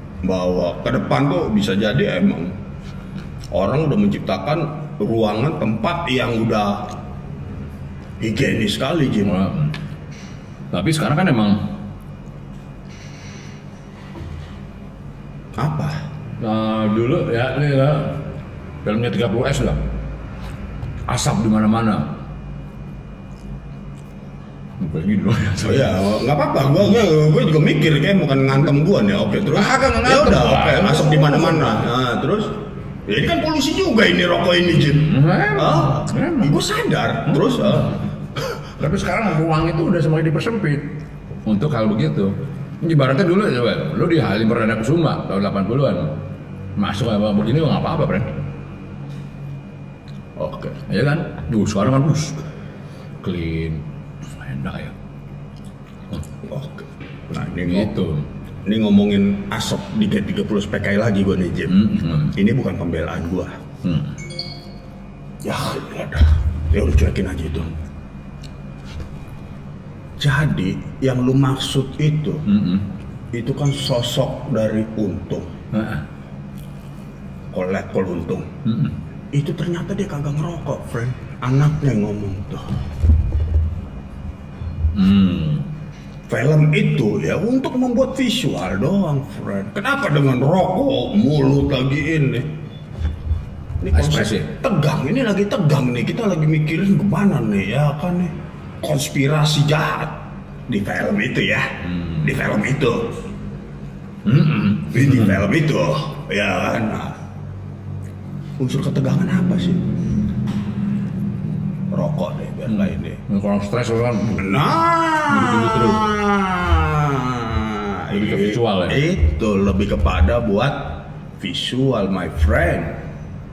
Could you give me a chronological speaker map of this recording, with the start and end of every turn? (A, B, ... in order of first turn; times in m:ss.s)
0:00.2-0:02.5 A
0:03.5-0:06.9 A
0:08.2-0:09.4 A
0:09.2-0:09.7 B
0:10.7-0:11.6 B
0:15.6-0:16.0 A
0:16.4-0:18.2 B
0:18.8-0:19.8 B
0:21.1-0:22.1 B
0:24.8-0:26.1 B
0:25.6-0:32.6 A
0:29.4-0:31.8 B
0:33.1-0:37.9 A
0:35.1-0:36.6 B
0:37.3-0:38.0 B
0:38.8-0:40.9 B
0:41.5-0:46.1 B
0:46.8-0:48.3 B
0:50.4-0:50.8 A
0:50.9-0:52.4 B
0:53.2-0:53.8 B
0:54.3-0:55.0 B
0:56.4-0:58.0 A
0:57.5-0:58.3 B
0:58.6-1:03.6 A
1:01.7-1:02.4 B
1:03.8-1:04.1 B
1:05.4-1:07.7 A
1:10.2-1:12.4 A
1:12.5-1:12.9 B
1:13.3-1:15.5 A
1:15.7-1:16.0 B
1:17.5-1:18.5 A
1:18.6-1:18.9 B
1:19.3-1:22.7 A
1:24.9-1:25.7 B
1:26.3-1:32.5 A
1:33.8-1:43.1 A
1:33.9-1:34.5 B
1:44.2-1:45.4 B
1:44.9-1:47.2 A
1:48.6-1:49.8 A
1:51.9-1:53.2 A
1:52.7-1:56.1 B
1:54.4-2:03.0 A
1:58.1-1:59.0 B